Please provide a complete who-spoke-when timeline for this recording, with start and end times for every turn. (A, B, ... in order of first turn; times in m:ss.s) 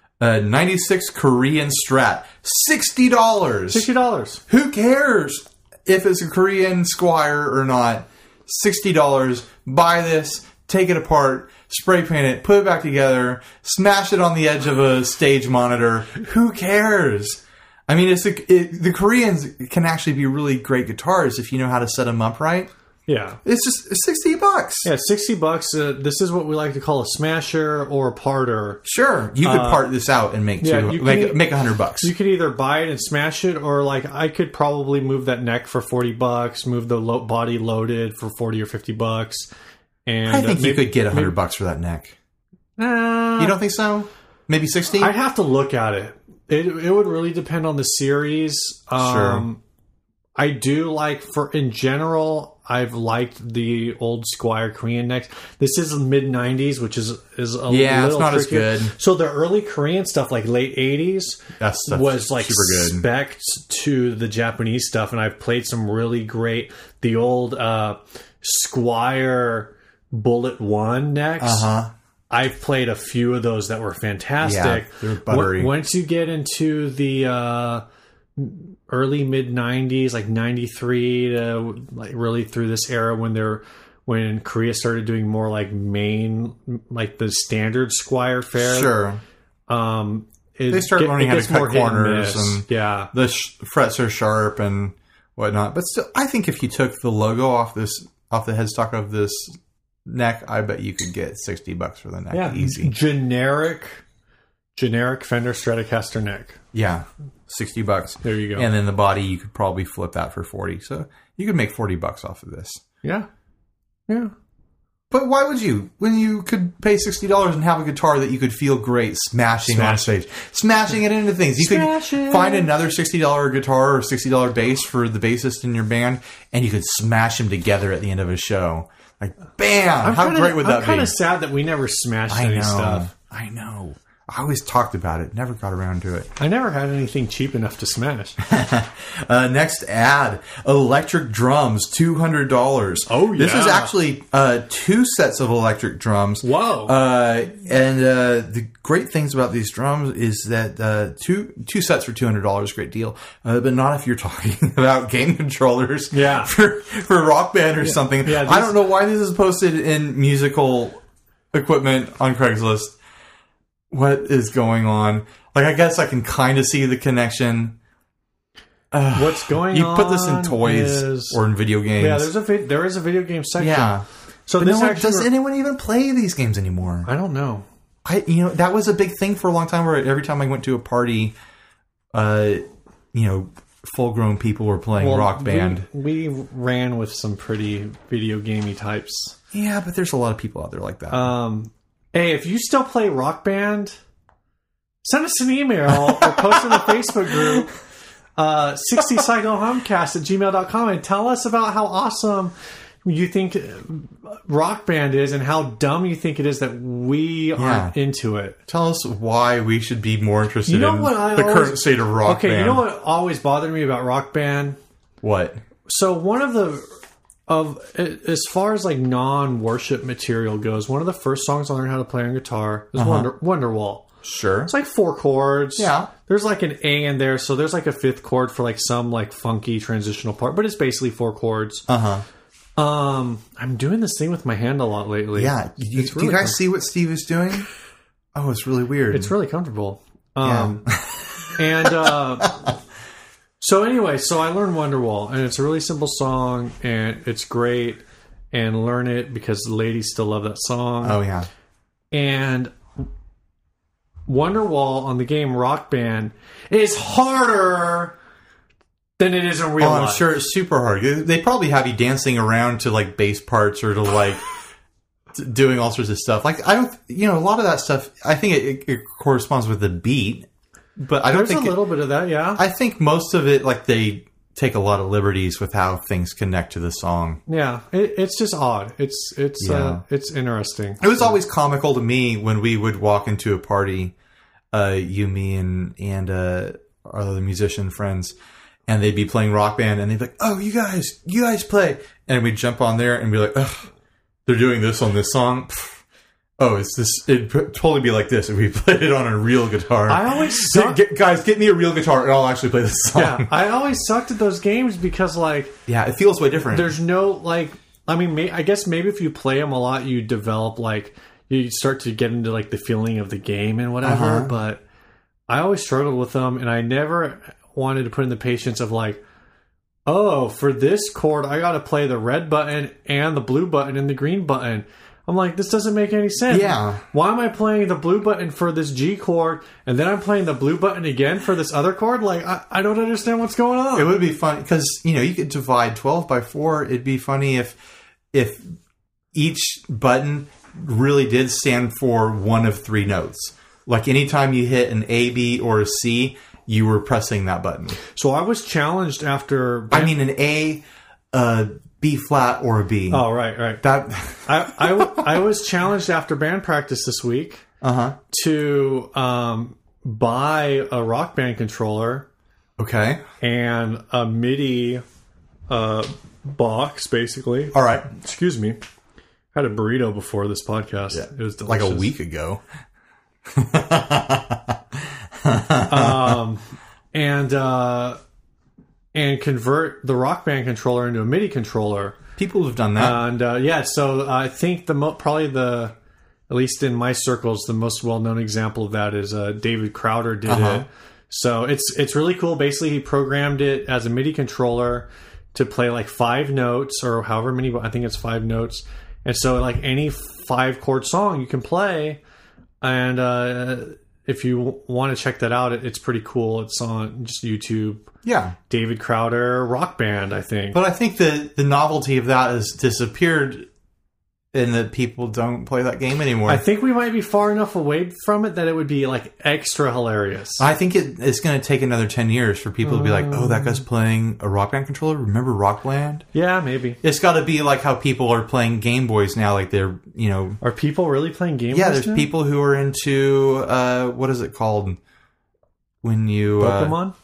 0:00.2-0:03.9 A
0:03.7-0:04.4 B
0:04.5-0:22.7 A
0:23.1-0:23.4 B
0:23.4-0:24.9 A
0:24.8-0:28.8 B
0:28.8-0:32.1 A
0:29.4-0:29.8 B
0:30.6-0:31.4 B
0:32.0-0:39.5 B
0:40.1-0:41.4 B
0:40.2-0:42.2 A
0:42.8-0:43.6 B
0:43.4-0:45.1 A
0:45.0-0:49.6 B
0:49.0-0:49.5 A
0:50.4-1:11.7 B
0:57.7-0:58.9 A
1:01.6-1:03.0 A
1:11.4-1:11.9 A
1:12.3-1:17.8 B
1:14.4-1:15.7 A
1:18.4-1:28.9 B
1:28.6-1:29.2 A
1:29.7-1:33.1 B
1:30.7-1:43.0 A
1:42.3-1:44.0 B
1:44.8-1:46.6 B
1:46.7-1:52.8 A
1:48.2-1:48.7 B
1:53.0-1:53.3 B
1:54.1-1:54.3 B
1:55.1-2:11.1 A
1:59.7-2:00.1 B
2:01.6-2:02.7 B
2:10.0-2:13.1 B
2:12.3-2:16.3 A
2:16.4-2:18.4 B
2:18.4-2:41.0 A
2:23.1-2:23.9 B
2:26.4-2:26.9 B
2:36.1-2:36.5 B
2:37.8-2:38.8 B
2:41.5-2:43.0 A
2:43.9-2:47.8 A
2:48.9-2:52.3 A
2:49.1-2:51.4 B
2:52.0-2:55.3 B
2:53.6-2:54.0 A
2:54.6-2:57.1 A
2:57.1-2:57.6 B
2:58.0-3:01.3 A
3:02.1-3:05.9 A
3:05.0-3:09.4 B
3:09.5-3:11.3 A
3:11.1-3:14.0 B
3:15.0-3:17.7 B
3:16.1-3:16.8 A
3:18.4-3:22.5 B
3:23.0-3:28.6 B
3:27.6-3:27.9 A
3:28.7-3:32.9 A
3:30.7-3:34.8 B
3:35.2-3:35.6 A
3:35.9-3:36.9 B
3:37.5-3:44.1 B
3:43.0-3:43.3 A
3:44.2-3:44.7 A
3:44.7-3:51.9 B
3:45.8-3:46.1 A
3:51.9-3:52.2 A
3:52.8-3:56.6 B
3:55.4-3:57.7 A
3:58.4-3:59.3 A
3:59.1-4:00.9 B
4:00.4-4:02.5 A
4:01.5-4:02.7 B
4:03.6-4:11.2 B
4:11.0-4:11.5 A
4:12.1-4:13.1 B
4:14.2-4:18.2 B
4:19.2-4:20.2 B
4:19.8-4:24.4 A
4:25.3-4:31.8 A
4:31.3-4:32.6 B
4:32.6-4:37.4 A
4:37.5-4:41.3 B
4:39.6-4:40.0 A
4:41.0-4:44.1 A
4:44.7-4:48.4 A
4:48.9-4:53.9 A
4:54.5-4:56.0 A
4:56.6-5:03.5 A
5:00.1-5:01.0 B
5:03.1-5:05.8 B
5:05.9-5:06.9 A
5:06.7-5:14.8 B
5:14.0-5:14.5 A
5:15.5-5:19.2 B
5:20.1-5:34.1 B
5:26.5-5:27.0 A
5:34.0-5:37.8 A
5:38.3-5:38.7 A
5:39.3-5:48.0 A
5:48.1-5:50.2 B
5:49.9-5:53.2 A
5:53.1-5:53.8 B
5:53.8-5:55.2 A
5:54.5-5:57.6 B
5:57.8-5:58.2 A
5:58.3-6:02.3 B
6:02.8-6:03.2 A
6:03.4-6:05.0 B
6:05.7-6:08.8 B
6:07.7-6:08.1 A
6:09.5-6:12.1 B
6:11.1-6:12.6 A
6:13.5-6:14.8 A
6:15.4-6:16.4 A
6:15.9-6:16.6 B
6:17.1-6:18.2 B
6:19.1-6:22.2 B
6:22.4-6:23.2 A
6:23.0-6:25.9 B
6:26.5-6:42.2 B
6:30.5-6:30.8 A
6:42.8-6:48.1 B
6:48.2-6:48.6 A
6:48.7-6:50.8 B
6:50.7-6:53.7 A
6:54.5-6:56.6 A
6:56.5-7:00.6 B
7:00.6-7:06.2 A
7:02.8-7:03.8 B
7:06.3-7:07.0 B
7:07.0-7:10.6 A
7:10.6-7:12.3 B
7:11.7-7:15.0 A
7:16.0-7:17.0 A
7:16.6-7:17.1 B